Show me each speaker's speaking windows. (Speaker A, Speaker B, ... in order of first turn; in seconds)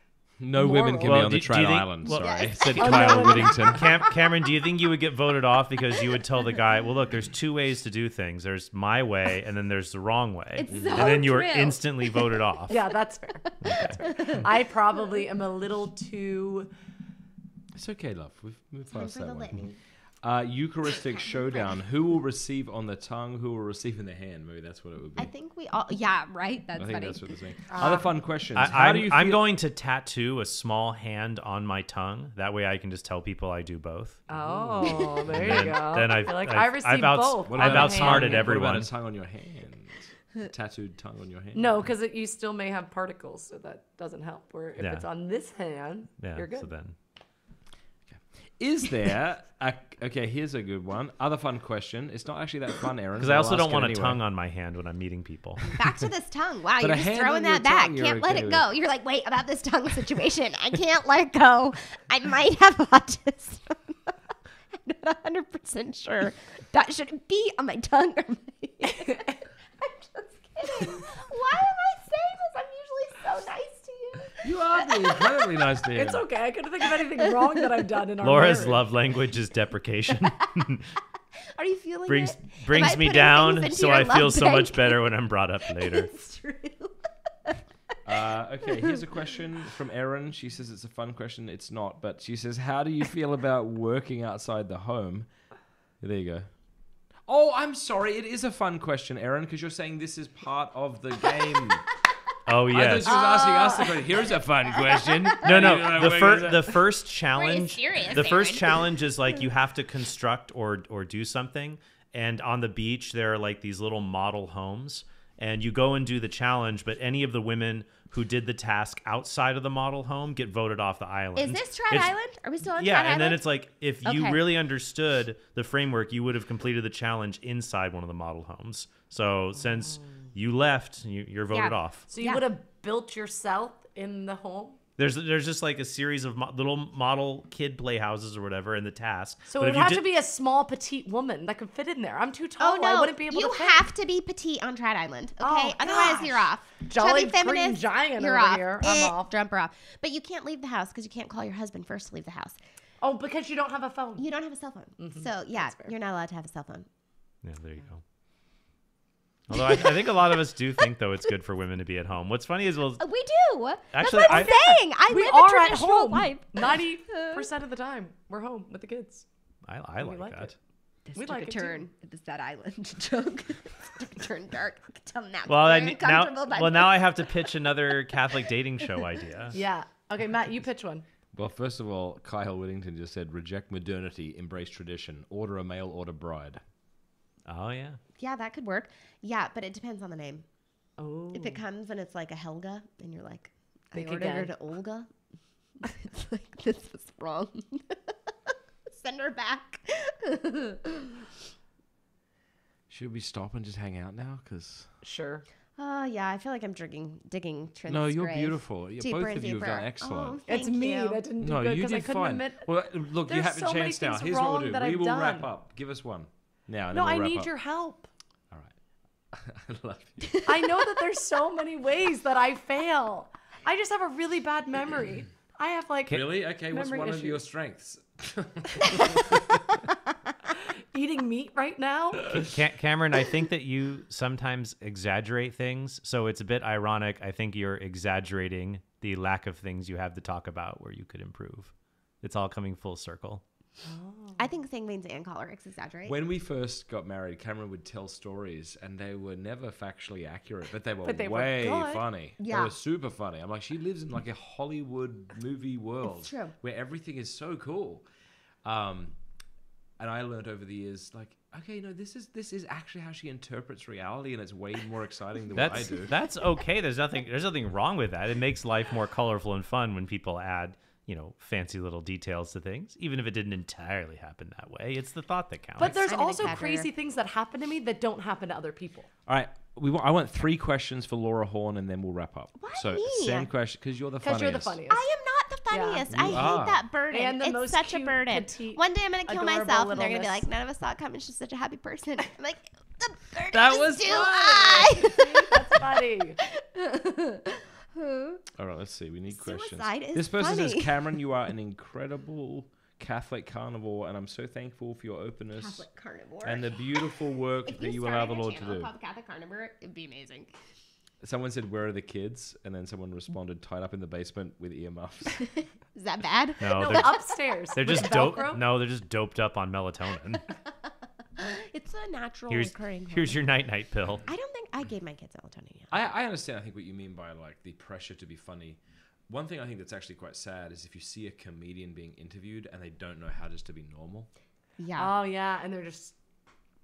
Speaker A: 0.4-3.9, 10.7-11.2, 17.8-19.6, 20.2-25.3, 26.8-29.4, 34.3-35.8, 37.5-41.8, 48.1-54.2, 56.8-58.7, 74.4-76.3, 88.0-95.3, 96.0-96.5, 97.3-101.9, 102.7-106.8, 181.3-186.6, 202.9-204.9, 207.9-210.4, 211.4-217.5, 218.5-218.8, 219.3-220.5, 226.1-229.8, 246.1-258.0, 258.6-259.2, 260.0-266.1, 279.3-284.8, 286.1-286.8, 293.5-295.0, 298.6-305.8, 306.4-308.9, 311.2-315.6, 325.9-334.3
Speaker B: 0.6-1.3, 2.7-3.9, 12.7-16.7, 27.7-28.1, 34.3-38.5, 41.5-46.7, 68.9-69.4, 75.9-78.9, 103.0-104.3, 132.1-134.8, 139.5-143.8, 145.4-149.3, 153.0-154.3, 155.0-155.9, 164.2-169.2, 170.0-170.5, 171.2-171.8, 179.5-181.0, 191.0-191.6, 193.9-194.5, 205.0-205.5, 210.5-212.7, 213.3-215.5, 216.9-218.1, 220.4-227.4, 230.5-232.4, 243.8-244.5, 251.0-252.1, 275.8-279.1, 284.2-285.1, 285.7-290.4, 294.1-296.4, 316.8-318.6, 335.0-336.1
Speaker C: 1.0-12.8, 13.6-14.0, 28.6-34.2, 35.3-38.9, 44.8-45.0, 46.2-47.0, 53.2-55.6, 78.2-80.9, 82.1-86.1, 102.5-103.2, 105.4-122.1, 122.8-132.1, 135.0-140.1, 157.4-158.0, 159.5-163.0, 163.9-164.5, 169.7-170.5, 175.5-179.6, 187.5-188.0, 232.4-243.4, 265.6-276.1, 316.6-317.2, 317.7-320.4, 322.5-324.2
Speaker D: 2.0-3.5, 10.6-12.8, 13.7-14.5, 18.9-19.8, 21.0-21.8, 25.2-28.0, 34.8-35.3, 55.7-64.1, 64.7-75.5, 81.5-85.0, 85.7-87.6, 88.6-89.0, 104.7-105.7, 107.3-108.9, 121.4-123.4, 124.0-124.4, 131.5-132.5, 142.6-152.6, 154.2-156.9, 163.0-167.4, 171.1-177.3, 188.2-190.4, 191.3-195.1, 195.8-201.3, 205.8-211.2, 244.4-246.2, 252.4-252.7, 256.0-256.5, 275.8-276.9, 282.6-283.5, 284.9-295.9, 296.5-298.4, 299.3-300.9, 305.5-310.6, 315.4-317.3, 321.4-323.4, 324.2-325.9, 334.8-335.1